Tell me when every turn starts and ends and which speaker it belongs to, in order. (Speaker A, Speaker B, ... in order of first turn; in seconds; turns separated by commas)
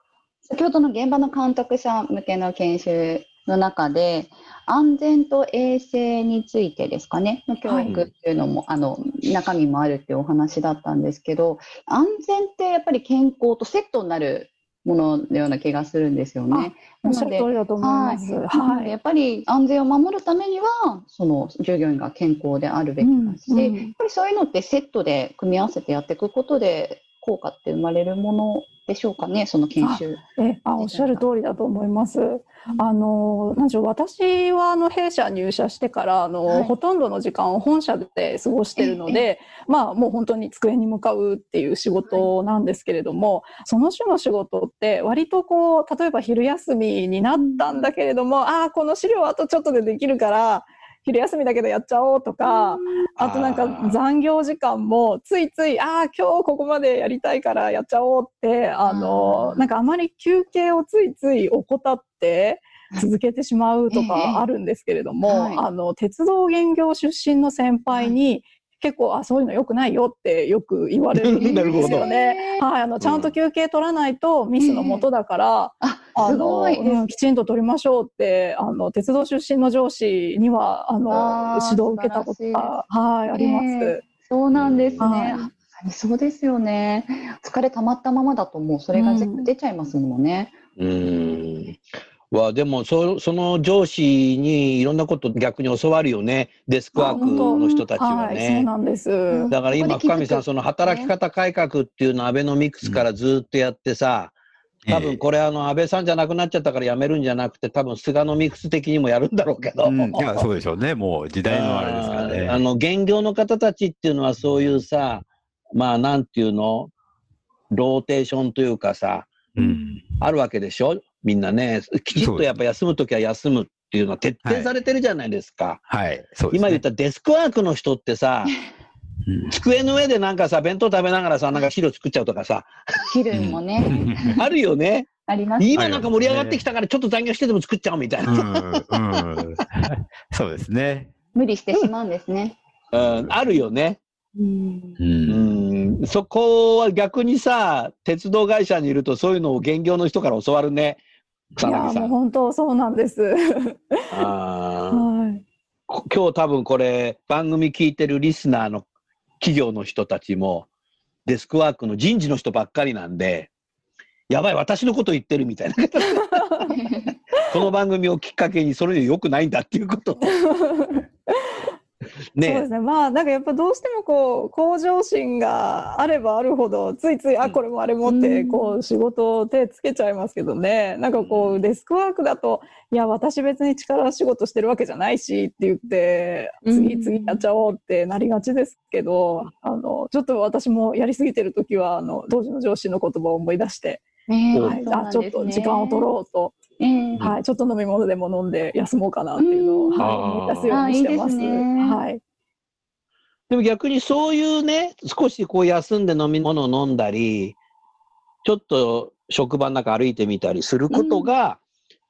Speaker A: 0.5-30.2, Speaker B: 7.7-7.9, Speaker B: 16.5-18.9, Speaker B: 23.0-23.9, Speaker B: 29.8-84.0, Speaker A: 30.8-31.2, Speaker A: 36.5-36.7, Speaker A: 38.8-39.2, Speaker A: 42.0-42.3, Speaker A: 47.3-47.9, Speaker A: 52.4-53.1, Speaker C: 53.2-54.0, Speaker A: 58.9-59.7, Speaker A: 63.9-64.4, Speaker A: 65.2-65.7, Speaker C: 71.2-72.1, Speaker A: 71.3-72.6, Speaker C: 73.0-73.3, Speaker A: 74.6-75.1, Speaker A: 75.8-77.1, Speaker A: 81.1-82.8, Speaker A: 83.3-90.5, Speaker C: 84.5-85.1, Speaker B: 85.0-85.5, Speaker B: 89.0-89.5, Speaker C: 90.8-91.8, Speaker C: 92.3-98.7, Speaker B: 97.0-99.5, Speaker A: 97.0-97.6, Speaker A: 99.3-101.1, Speaker C: 99.5-104.3, Speaker D: 104.9-105.2, Speaker C: 104.9-110.5, Speaker D: 109.8-112.6, Speaker C: 111.5-116.9, Speaker C: 117.7-119.3, Speaker D: 119.6-120.0, Speaker C: 120.2-125.8, Speaker D: 122.1-122.5, Speaker D: 124.4-124.7, Speaker D: 125.9-126.8, Speaker C: 126.5-128.5, Speaker D: 129.3-129.6, Speaker C: 129.5-132.7, Speaker A: 133.1-134.4, Speaker D: 133.3-134.4, Speaker C: 134.3-139.2, Speaker A: 135.3-135.7, Speaker D: 135.8-136.6, Speaker D: 138.3-141.1, Speaker A: 141.3-142.6, Speaker C: 142.9-144.0, Speaker D: 143.0-143.4, Speaker A: 144.4-145.0, Speaker D: 145.0-145.6, Speaker C: 145.3-151.0, Speaker C: 151.5-152.1, Speaker B: 151.6-154.1, Speaker C: 154.1-155.1, Speaker B: 154.9-155.4, Speaker C: 155.9-158.8, Speaker C: 159.4-160.7, Speaker C: 161.3-163.5, Speaker C: 164.3-166.4, Speaker B: 166.2-166.7, Speaker A: 166.7-167.1, Speaker C: 167.5-170.3, Speaker B: 170.2-171.6, Speaker C: 172.3-172.7, Speaker B: 172.4-194.1, Speaker A: 178.1-178.8, Speaker C: 181.2-181.6, Speaker A: 186.7-187.4, Speaker A: 194.3-196.1, Speaker C: 194.5-194.8, Speaker B: 194.6-196.6, Speaker A: 196.8-197.3, Speaker B: 197.2-202.2, Speaker A: 199.4-200.1, Speaker C: 200.0-200.8, Speaker A: 200.7-202.0, Speaker C: 203.5-207.6, Speaker C: 208.4-211.6, Speaker A: 210.9-211.3